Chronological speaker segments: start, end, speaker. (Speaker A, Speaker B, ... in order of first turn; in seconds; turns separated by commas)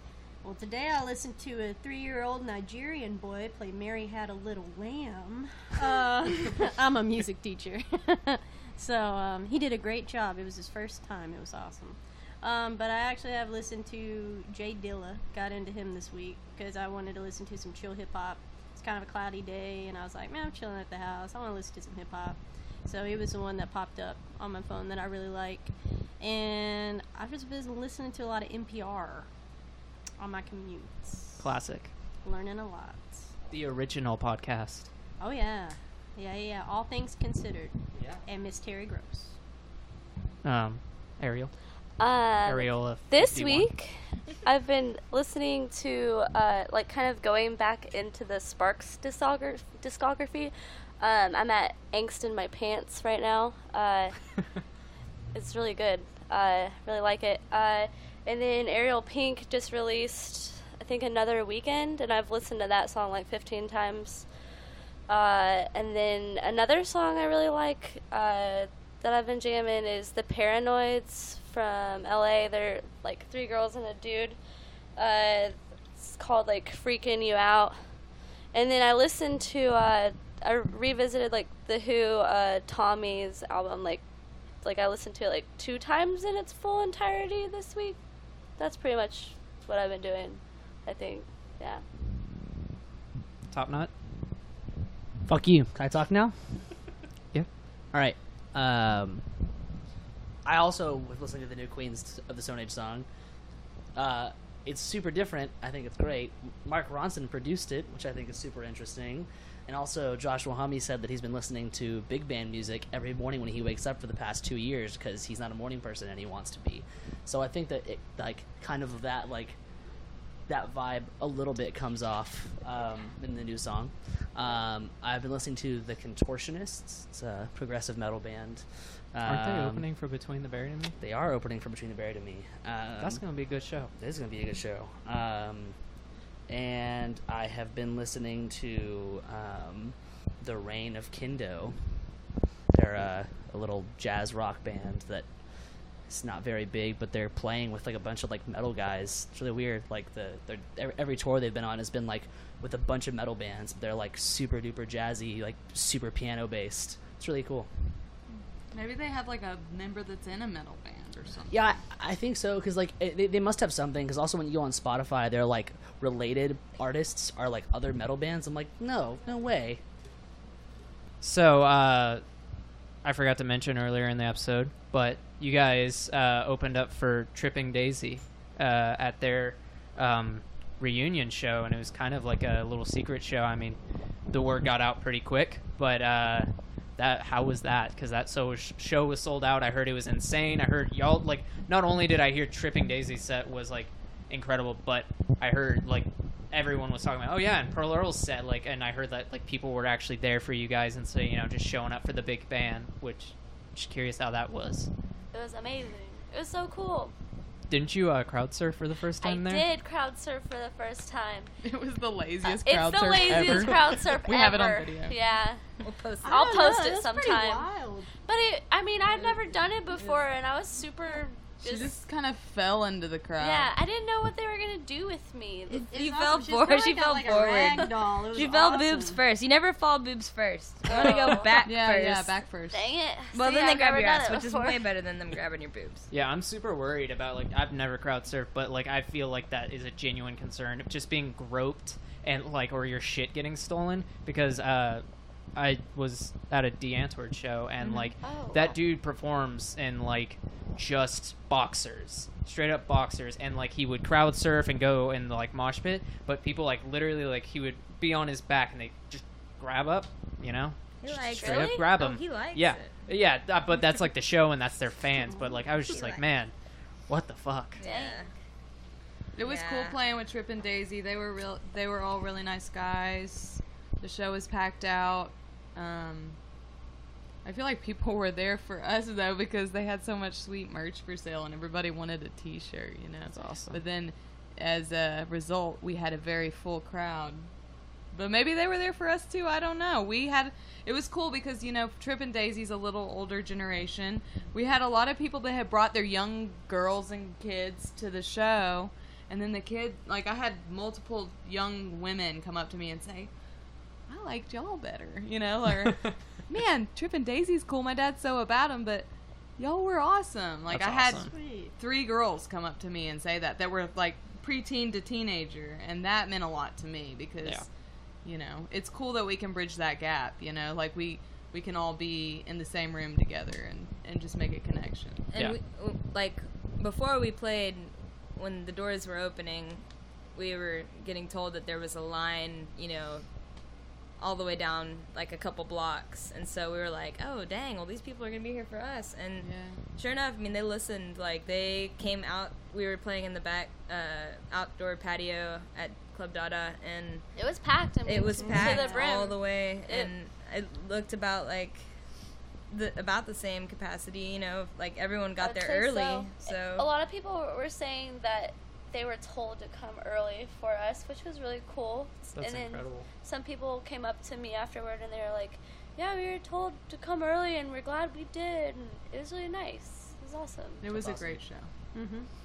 Speaker A: 0.4-29.4, Speaker A: 30.2-31.5, Speaker B: 31.4-31.9, Speaker A: 32.1-33.3, Speaker B: 33.5-34.9, Speaker A: 35.2-39.4, Speaker B: 37.9-38.2, Speaker B: 40.4-41.6, Speaker C: 42.0-54.6, Speaker B: 42.4-43.7, Speaker C: 55.3-64.3, Speaker C: 65.1-74.4, Speaker C: 75.0-91.8, Speaker B: 93.5-93.9, Speaker D: 95.3-96.9, Speaker D: 97.9-99.5, Speaker D: 100.4-103.1, Speaker D: 103.9-119.6, Speaker D: 120.4-129.9, Speaker B: 129.2-131.0, Speaker D: 131.0-133.4, Speaker B: 133.0-133.9, Speaker D: 134.0-135.8, Speaker D: 136.5-142.2, Speaker D: 142.7-145.4, Speaker D: 146.1-157.7, Speaker E: 158.7-161.8, Speaker D: 161.5-169.8, Speaker B: 171.2-204.9, Speaker C: 205.3-207.1, Speaker B: 207.7-209.7, Speaker C: 209.2-211.5, Speaker E: 211.6-215.2, Speaker C: 212.4-215.7, Speaker B: 213.2-213.8, Speaker F: 215.8-216.7, Speaker A: 216.2-218.1, Speaker C: 216.3-217.7, Speaker C: 218.2-222.0, Speaker F: 219.9-220.3, Speaker E: 221.6-223.7, Speaker C: 223.4-226.2, Speaker F: 225.7-232.4, Speaker A: 225.9-229.2, Speaker C: 230.9-231.7, Speaker E: 231.6-232.9, Speaker C: 232.7-234.9, Speaker F: 233.3-236.1, Speaker B: 236.1-267.8, Speaker F: 247.8-248.2, Speaker C: 248.2-248.8, Speaker F: 261.0-263.0, Speaker C: 261.4-261.9, Speaker F: 265.9-266.2, Speaker F: 267.8-268.3, Speaker C: 267.8-268.3, Speaker E: 269.3-276.4, Speaker F: 269.4-270.0, Speaker E: 277.4-303.3, Speaker B: 283.3-283.8, Speaker E: 304.0-325.3, Speaker B: 310.7-311.4, Speaker A: 311.3-311.7, Speaker B: 317.4-317.7, Speaker F: 325.3-347.3, Speaker E: 339.4-339.9, Speaker C: 347.3-350.1, Speaker F: 348.0-356.9, Speaker A: 348.4-349.0, Speaker C: 355.4-370.9, Speaker B: 362.3-363.1, Speaker E: 370.8-371.7, Speaker D: 370.9-371.4, Speaker A: 371.9-372.3